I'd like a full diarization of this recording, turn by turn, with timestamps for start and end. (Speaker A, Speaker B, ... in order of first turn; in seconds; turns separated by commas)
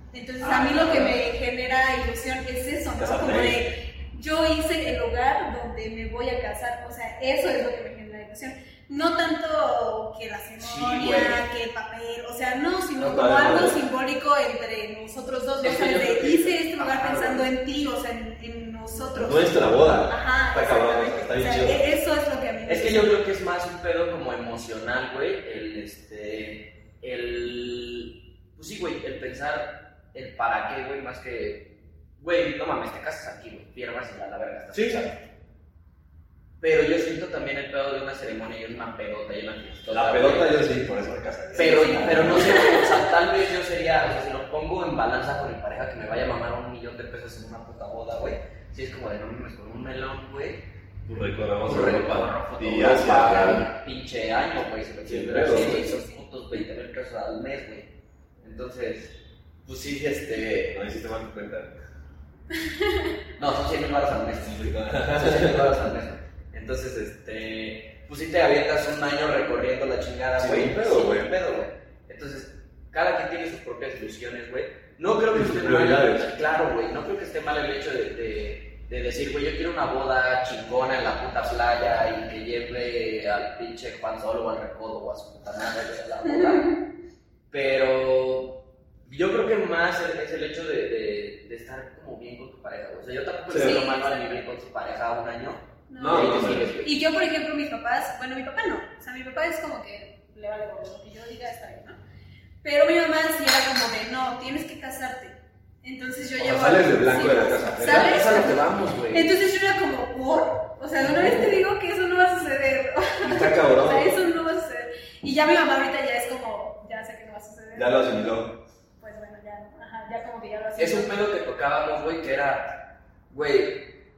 Speaker A: 0.1-23.1, Speaker B: 0.4-1.1, Speaker C: 0.6-1.0, Speaker B: 3.0-3.6, Speaker C: 10.6-11.4, Speaker B: 11.0-11.4, Speaker B: 13.0-13.8, Speaker C: 15.6-17.5, Speaker B: 19.1-21.8, Speaker C: 22.7-31.6, Speaker C: 32.2-35.2, Speaker B: 34.7-35.0, Speaker C: 36.6-40.6, Speaker B: 39.9-42.8, Speaker C: 41.5-50.6, Speaker A: 41.6-43.0, Speaker B: 51.1-53.7, Speaker C: 51.6-57.9, Speaker B: 55.1-55.9, Speaker A: 55.8-56.1, Speaker C: 58.4-59.1, Speaker C: 59.7-60.8, Speaker B: 60.7-61.8, Speaker A: 62.6-63.1, Speaker C: 63.4-86.7, Speaker B: 64.5-65.7, Speaker B: 70.4-71.3, Speaker B: 75.3-76.3, Speaker A: 86.2-86.8, Speaker C: 87.5-88.5, Speaker C: 89.1-96.9, Speaker B: 93.5-93.8, Speaker A: 93.5-94.4, Speaker A: 95.9-102.0, Speaker B: 96.0-96.7, Speaker A: 102.6-118.0, Speaker B: 106.4-108.5, Speaker C: 107.8-109.3, Speaker B: 111.0-111.6, Speaker B: 113.2-114.1, Speaker B: 117.8-118.6, Speaker A: 119.0-121.1, Speaker C: 120.8-122.7, Speaker C: 123.3-123.8